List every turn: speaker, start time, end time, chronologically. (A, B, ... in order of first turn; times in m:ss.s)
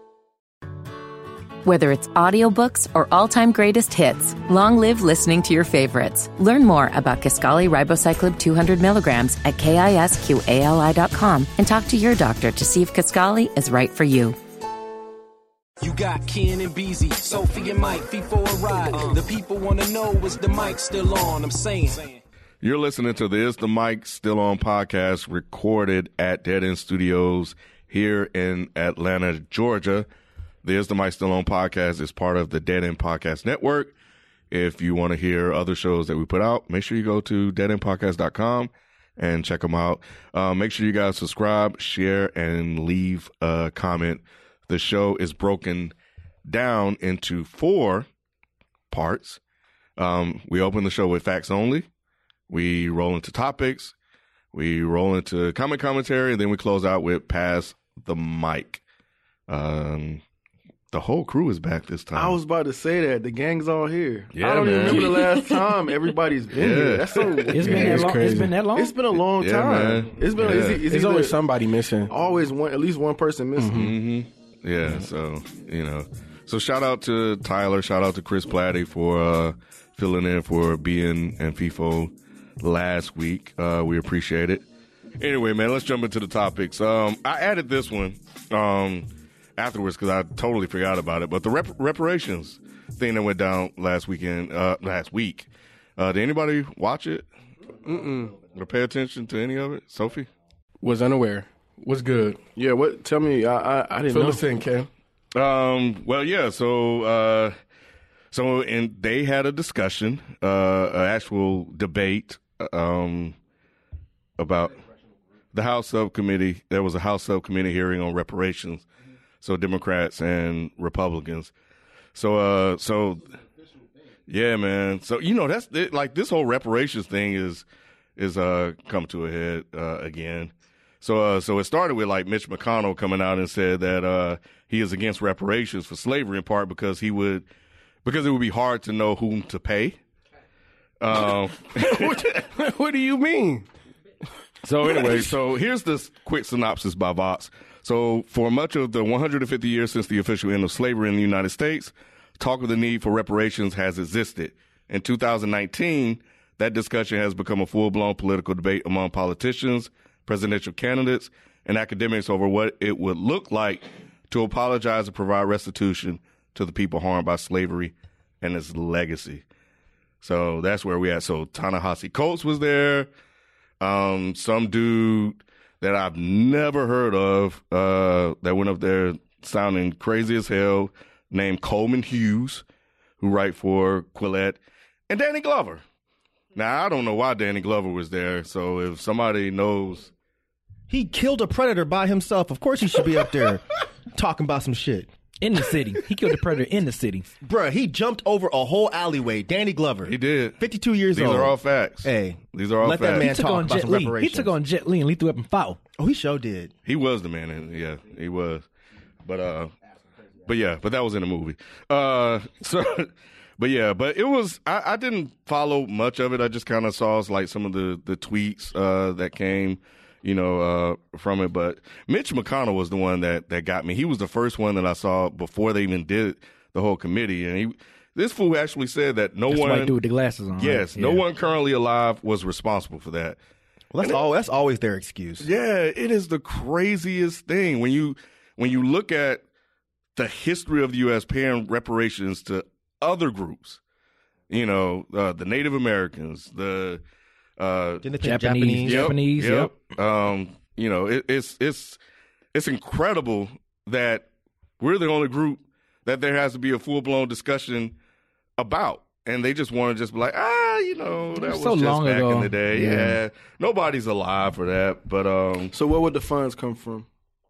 0:01.6-0:14.4 A
0:15.8-0:22.2 B
0:22.6-0:30.1 C
0:30.6-0:33.9 C
0:34.5-0:45.9 C
0:46.5-0:48.1 C
0:48.9-0:49.4 C
0:50.0-0:51.9 C
0:52.5-0:53.9 C
0:54.5-0:58.8 C
0:59.5-1:00.2 C
1:00.9-1:02.4 C
1:02.1-1:11.4 D
1:04.3-1:05.3 C
1:06.6-1:07.9 C
1:06.6-1:06.8 E
1:07.5-1:09.0 F
1:07.6-1:08.6 E
1:09.4-1:10.8 C
1:10.6-1:12.1 E
1:12.1-1:13.9 D
1:13.6-1:13.9 E
1:13.7-1:24.6 C
1:25.2-1:37.2 C
1:37.8-1:38.4 E
1:38.5-1:40.3 C
1:40.8-1:42.4 E
1:42.5-1:44.7 D
1:44.1-1:44.9 E
1:45.3-1:47.5 C
1:48.3-1:53.4 C
1:54.4-1:54.8 C
1:55.5-1:58.8 C
1:59.4-2:01.5 C
2:02.1-2:03.2 C
2:04.3-2:07.6 C
2:08.2-2:17.4 C
2:18.0-2:20.0 C
2:21.0-2:22.3 C
2:21.2-2:23.6 E
2:24.6-2:49.4 C
2:24.8-2:25.3 E
2:50.2-2:53.1 C
2:53.8-3:02.6 C
3:03.2-3:04.6 C
3:05.1-3:05.8 C
3:06.5-3:10.1 C
3:10.9-3:15.1 G
3:15.4-3:17.3 F
3:17.4-3:24.5 G
3:20.0-3:20.6 C
3:21.1-3:23.3 C
3:23.2-3:25.8 F
3:26.0-3:26.7 G
3:26.8-3:28.6 C
3:29.2-3:29.7 C
3:30.4-3:49.9 C
3:49.5-3:51.2 F
3:50.6-3:53.4 C
3:53.9-3:55.5 G
3:55.4-3:59.4 C
4:00.1-4:03.8 C
4:04.5-4:07.0 C
4:07.6-4:08.1 C
4:08.0-4:09.1 G
4:08.2-4:09.7 F
4:08.8-4:12.0 C
4:12.5-4:14.3 C
4:14.8-4:17.9 C
4:18.6-4:25.7 C
4:21.4-4:23.2 F
4:25.7-4:27.1 D